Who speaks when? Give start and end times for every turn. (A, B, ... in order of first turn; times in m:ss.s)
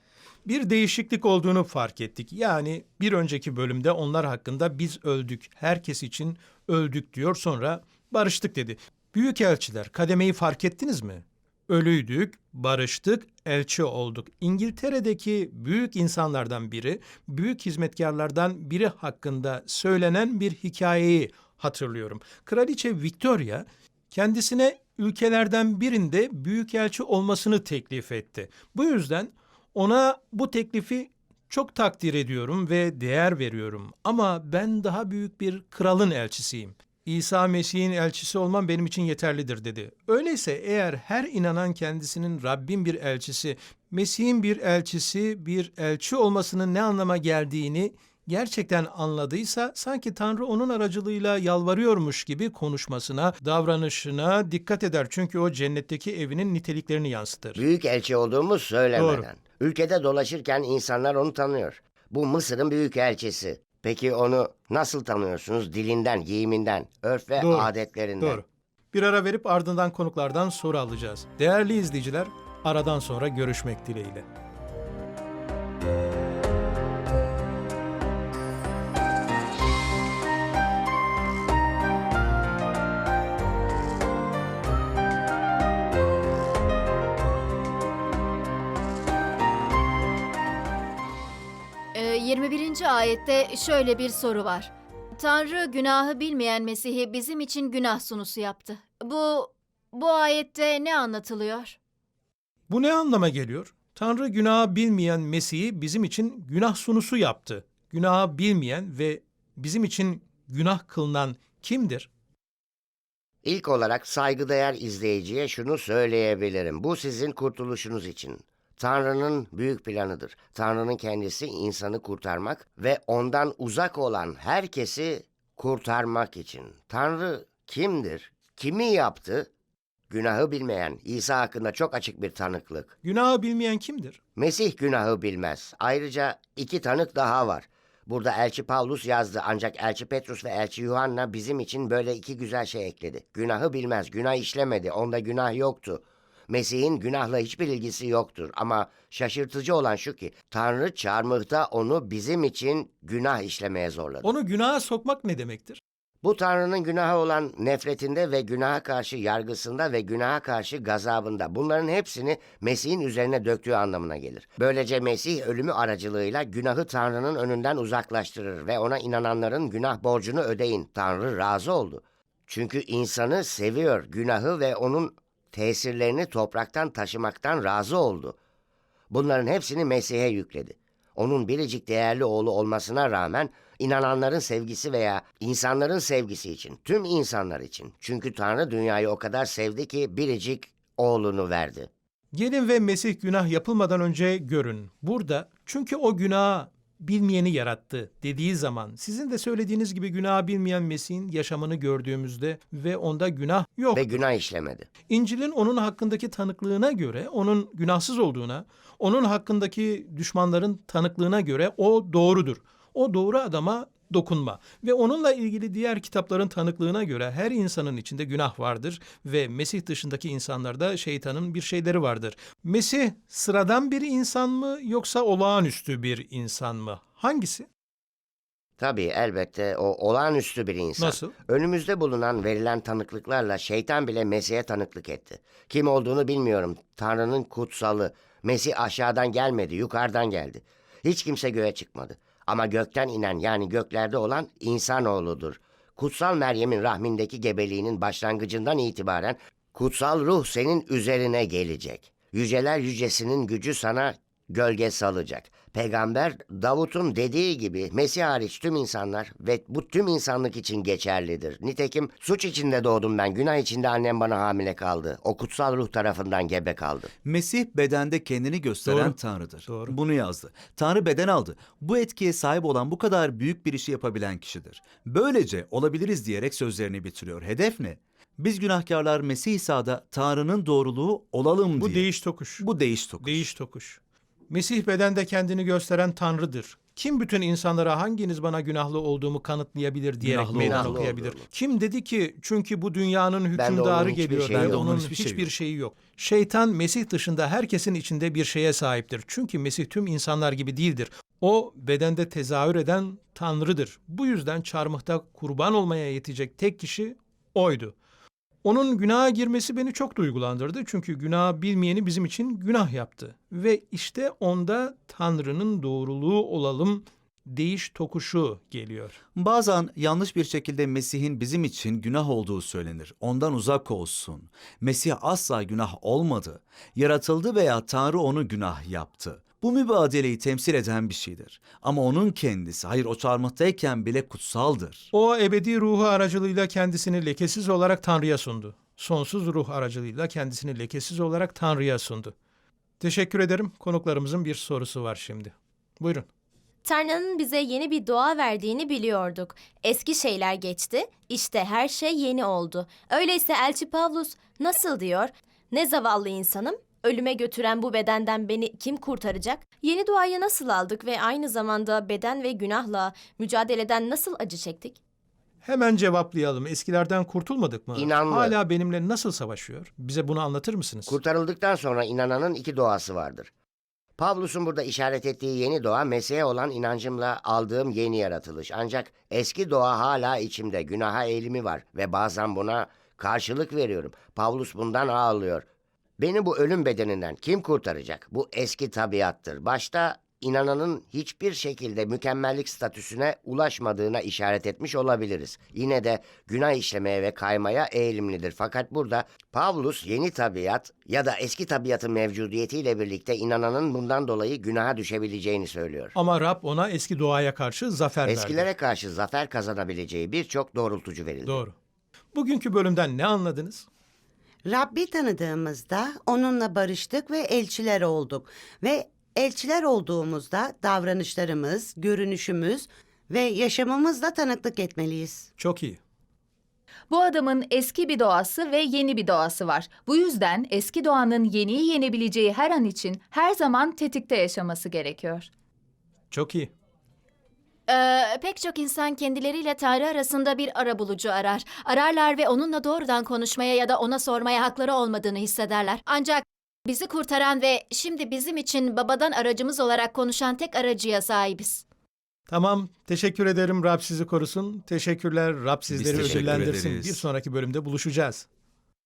0:00.5-0:57.6 A
0:57.6-1:08.4 B
0:59.0-0:59.3 A
1:07.4-1:14.3 A
1:31.9-1:41.8 C
1:42.7-1:52.1 A
1:53.4-2:09.5 B
2:10.1-2:13.0 B
2:13.0-2:14.2 A
2:14.4-2:34.3 B
2:34.2-2:35.8 A
2:36.2-2:58.4 B
2:59.1-3:11.9 B
3:12.3-3:24.2 A
3:23.9-3:24.9 B
3:25.1-3:47.7 A
3:48.8-4:27.1 B
3:51.0-3:51.3 A
4:27.2-4:43.5 D
4:28.9-4:30.0 A
4:41.8-4:42.7 A
4:43.2-5:08.0 A
4:50.2-4:51.1 D
4:50.6-4:51.5 B
4:53.6-4:54.8 B
4:54.5-4:55.5 D
5:08.6-5:19.2 A
5:19.4-5:35.1 D
5:35.1-5:42.4 A
5:43.0-5:46.3 A
5:46.8-6:05.0 E
6:05.6-6:11.2 A
6:08.0-6:08.6 B
6:11.1-6:13.5 B
6:14.2-6:25.7 B
6:26.2-6:46.1 B
6:46.2-6:48.7 A
6:48.3-6:51.6 B
6:51.5-6:51.8 A
6:52.4-6:53.9 A
6:54.7-7:05.5 F
7:05.6-7:06.0 A
7:07.1-7:15.5 G
7:16.3-7:16.7 A
7:17.9-7:31.8 C
7:32.5-7:38.5 A
7:35.9-7:37.3 D
7:36.1-7:36.6 B